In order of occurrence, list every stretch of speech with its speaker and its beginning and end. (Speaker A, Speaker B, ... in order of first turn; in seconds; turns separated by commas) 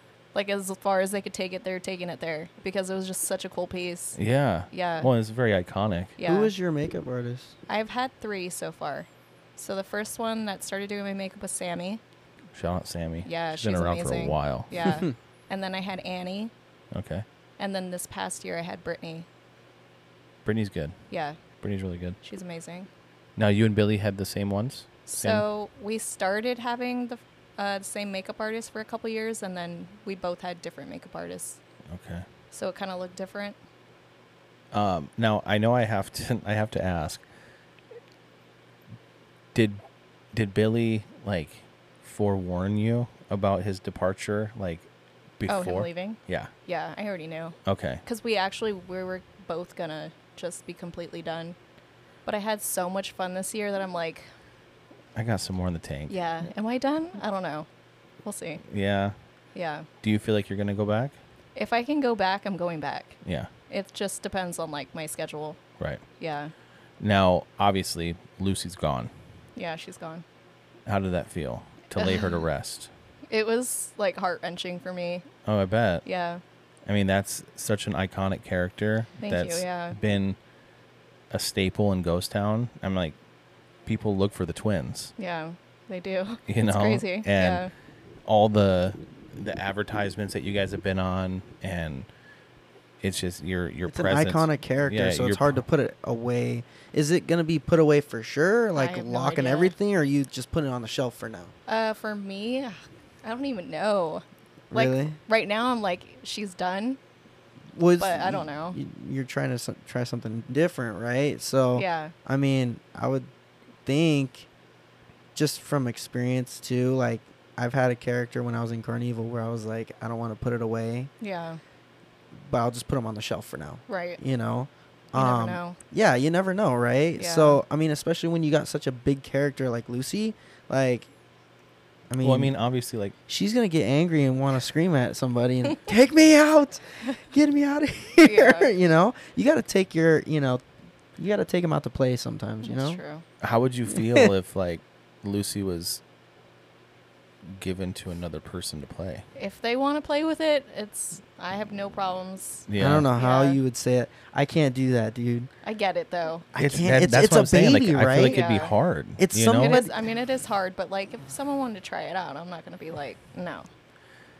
Speaker A: 0.3-4.2, Speaker B: 4.2-6.2, Speaker A: 4.7-5.1, Speaker A: 6.2-6.5, Speaker C: 6.2-7.5, Speaker A: 7.7-12.0, Speaker B: 12.5-14.8, Speaker A: 13.2-16.5, Speaker B: 16.9-17.2, Speaker A: 17.6-19.3, Speaker B: 20.4-20.9, Speaker A: 21.1-21.4, Speaker B: 21.6-22.2, Speaker A: 22.2-22.9, Speaker B: 23.4-25.4, Speaker A: 25.1-31.6, Speaker B: 31.9-32.2, Speaker A: 32.5-33.6, Speaker B: 34.7-37.2, Speaker B: 39.5-39.8, Speaker B: 40.3-44.9, Speaker B: 45.4-46.5, Speaker A: 45.5-51.6, Speaker B: 47.6-48.0, Speaker A: 52.2-54.3, Speaker B: 55.1-56.1, Speaker A: 56.1-57.7, Speaker A: 58.2-58.6, Speaker B: 58.6-59.1, Speaker A: 59.5-59.9, Speaker B: 60.0-61.2, Speaker A: 61.5-63.2, Speaker B: 63.2-63.5, Speaker A: 63.7-65.6, Speaker A: 66.2-66.5, Speaker B: 67.0-69.1, Speaker A: 69.5-70.2, Speaker B: 70.8-72.9, Speaker A: 71.9-72.4, Speaker A: 73.3-75.3, Speaker B: 75.4-76.0, Speaker A: 76.0-76.4, Speaker B: 76.8-80.4, Speaker A: 79.2-80.0, Speaker B: 81.3-83.2, Speaker B: 83.8-85.1, Speaker A: 85.2-87.7, Speaker B: 86.5-87.7, Speaker B: 88.2-92.1, Speaker B: 93.0-95.6, Speaker C: 93.9-101.5, Speaker A: 98.8-99.7, Speaker A: 101.7-107.0, Speaker C: 104.7-105.2, Speaker C: 107.7-113.3, Speaker A: 108.0-108.8, Speaker A: 111.7-112.1, Speaker C: 113.8-114.5, Speaker C: 115.3-121.1, Speaker A: 121.2-121.6, Speaker C: 122.3-131.1, Speaker A: 123.9-124.2, Speaker A: 125.1-125.8, Speaker A: 127.2-127.6, Speaker C: 132.1-132.5, Speaker B: 132.2-133.1, Speaker C: 133.3-140.6, Speaker A: 138.2-138.7, Speaker C: 141.2-143.0, Speaker A: 142.6-143.2, Speaker B: 143.4-146.0, Speaker C: 143.9-144.3, Speaker B: 147.4-149.2, Speaker A: 149.3-153.6, Speaker B: 152.7-153.1, Speaker C: 152.8-155.5, Speaker A: 155.6-156.5, Speaker C: 156.5-158.4, Speaker B: 156.6-159.8, Speaker A: 158.2-158.7, Speaker C: 159.2-159.9, Speaker A: 159.4-163.7